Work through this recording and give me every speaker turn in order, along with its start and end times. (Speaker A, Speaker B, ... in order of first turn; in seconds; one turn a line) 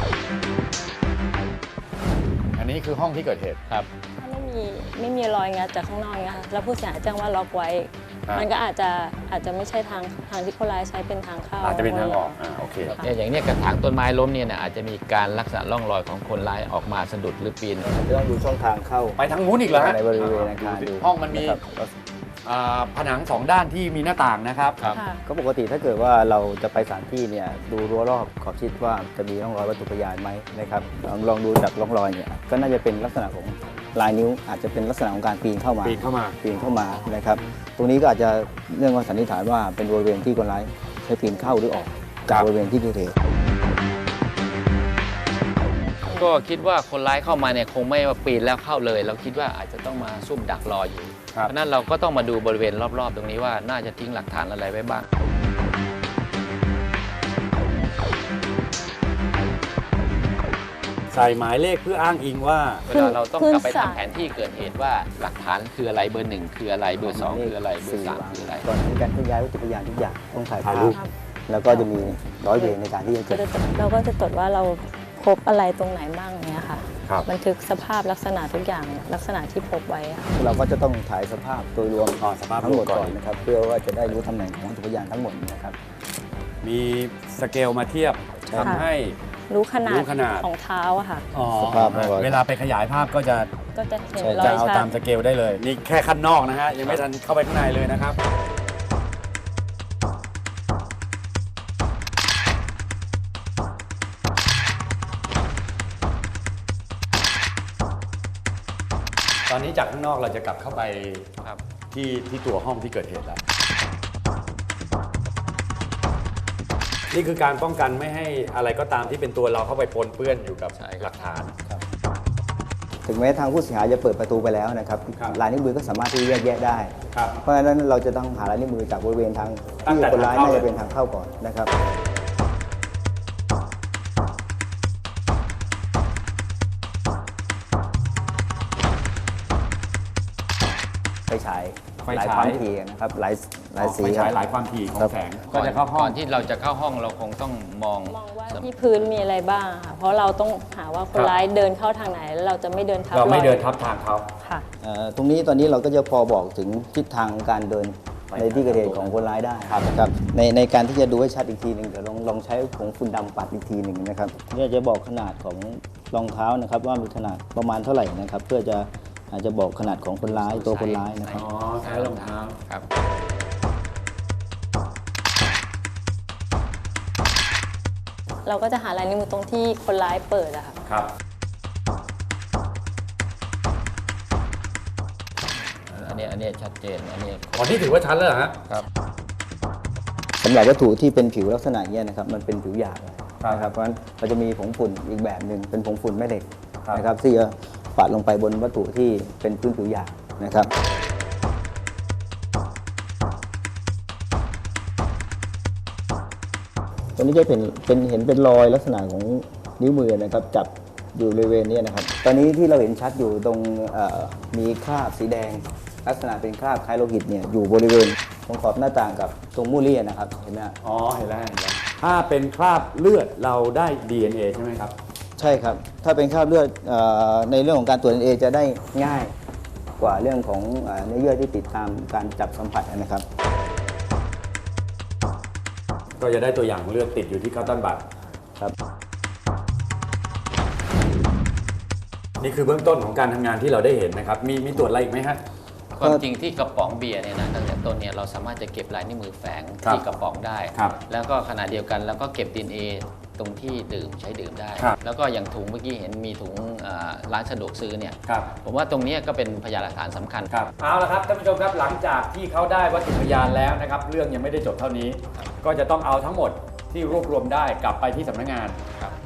Speaker A: 2.6-3.6
Speaker B: 4.2-13.1
Speaker A: 11.6-13.0
Speaker C: 13.0-17.9
Speaker D: 17.8-21.9
Speaker A: 19.2-21.6
Speaker A: 22.4-24.8
Speaker B: 24.9-25.2
Speaker D: 24.9-43.2
Speaker A: 35.8-36.4
Speaker C: 46.1-55.1
Speaker A: 61.1-62.9
Speaker C: 62.9-68.7
Speaker B: 62.9-64.0
Speaker D: 67.0-73.5
Speaker A: 70.6-71.0
Speaker B: 70.9-71.1
Speaker B: 71.7-72.7
Speaker B: 73.3-80.4
Speaker D: 80.4-85.8
Speaker A: 82.2-83.2
Speaker A: 86.6-89.2
Speaker D: 88.5-88.8
Speaker B: 88.5-88.9
Speaker B: 89.5-91.3
Speaker A: 89.8-90.5
Speaker A: 91.3-93.5
Speaker D: 91.5-92.4
Speaker B: 93.8-94.9
Speaker D: 94.2-94.6
Speaker A: 94.3-98.2
Speaker A: 109.5-111.3
Speaker A: 111.9-113.4
Speaker A: 117.1-121.6
Speaker C: 120.8-121.1
Speaker D: 123.0-131.7
Speaker A: 127.1-127.4
Speaker A: 129.8-130.7
Speaker D: 141.3-144.4
Speaker A: 142.1-142.6
Speaker A: 143.8-146.1
Speaker C: 145.5-148.7
Speaker B: 148.1-153.6
Speaker A: 153.1-154.3
Speaker B: 154.4-154.7
Speaker D: 154.8-171.5
Speaker A: 158.3-159.1
Speaker A: 159.7-159.9
Speaker C: 170.2-172.8
Speaker A: 171.3-172.6
Speaker B: 178.4-180.8
Speaker C: 185.9-188.0
Speaker A: 187.6-188.6
Speaker D: 190.4-200.7
Speaker A: 193.4-193.7
Speaker D: 207.2-220.8
Speaker A: 220.8-224.9
Speaker D: 225.4-229.3
Speaker D: 230.0-233.2
Speaker A: 236.2-238.0
Speaker A: 242.4-245.4
Speaker C: 245.9-260.5
Speaker A: 260.5-268.8